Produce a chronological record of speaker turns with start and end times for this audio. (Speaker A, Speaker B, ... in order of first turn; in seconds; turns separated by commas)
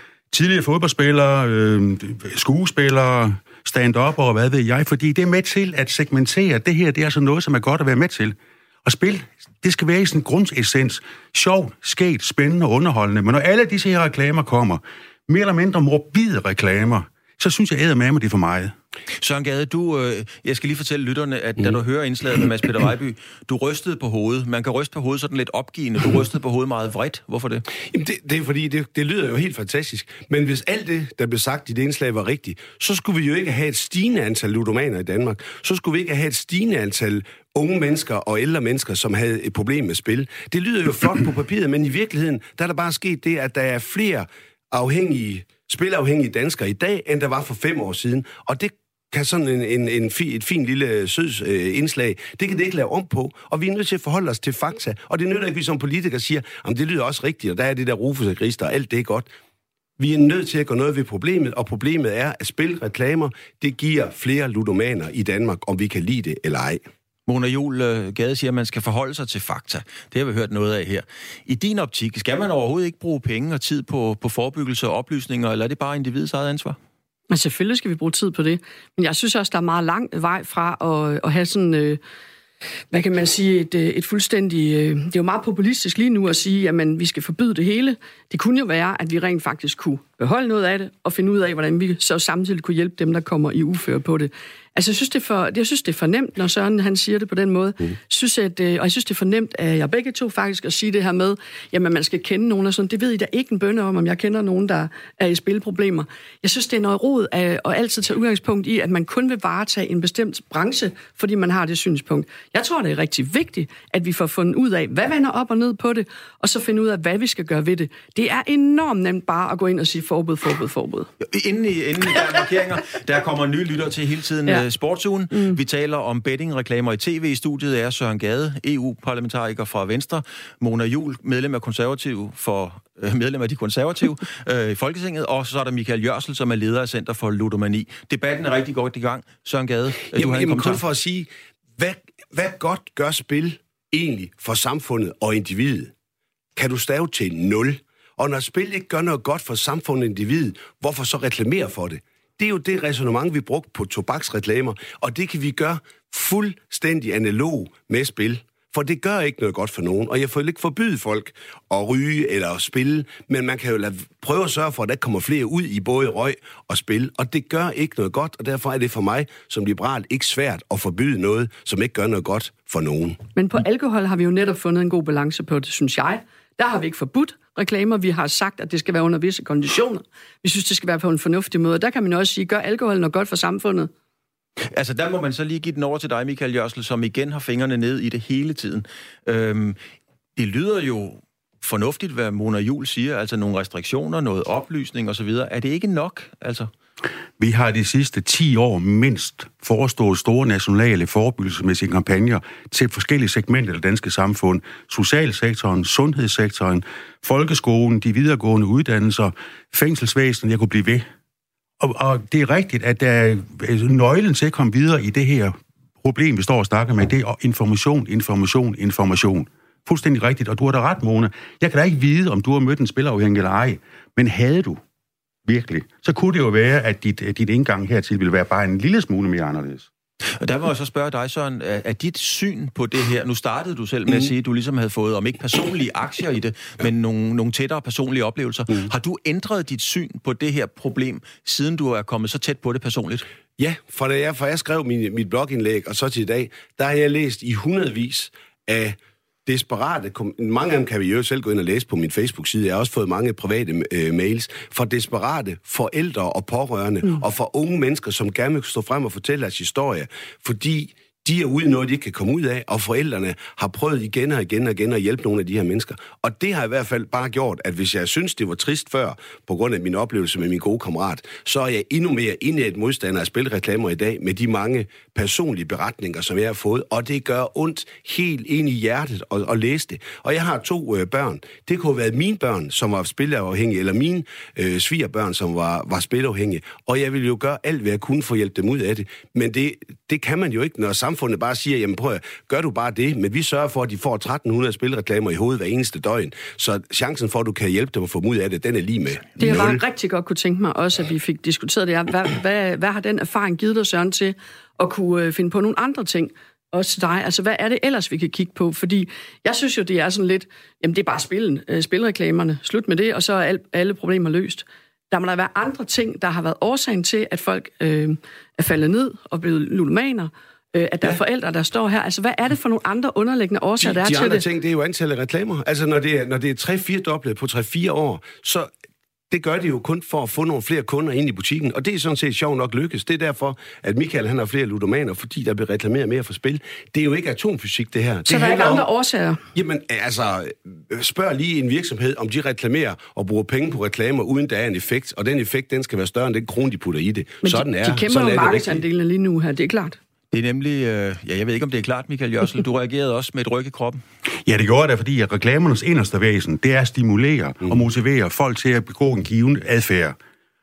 Speaker A: 0.3-18.7, Speaker B: 19.2-27.7, Speaker C: 27.9-59.3, Speaker C: 60.0-66.8, Speaker B: 67.3-76.8, Speaker D: 77.3-82.0, Speaker D: 82.9-121.1, Speaker B: 121.2-140.8, Speaker D: 125.3-125.6, Speaker C: 140.1-145.9, Speaker C: 146.6-173.2, Speaker D: 173.4-183.9, Speaker B: 184.7-189.8, Speaker B: 190.4-196.7, Speaker A: 197.4-211.1, Speaker A: 211.8-224.8, Speaker A: 225.4-229.9, Speaker B: 230.4-243.3, Speaker C: 243.6-299.8, Speaker D: 299.4-324.4, Speaker C: 323.8-328.7, Speaker C: 329.3-338.9, Speaker D: 338.3-339.4, Speaker C: 339.5-348.8, Speaker D: 347.4-350.0, Speaker B: 350.3-354.0, Speaker A: 354.5-360.2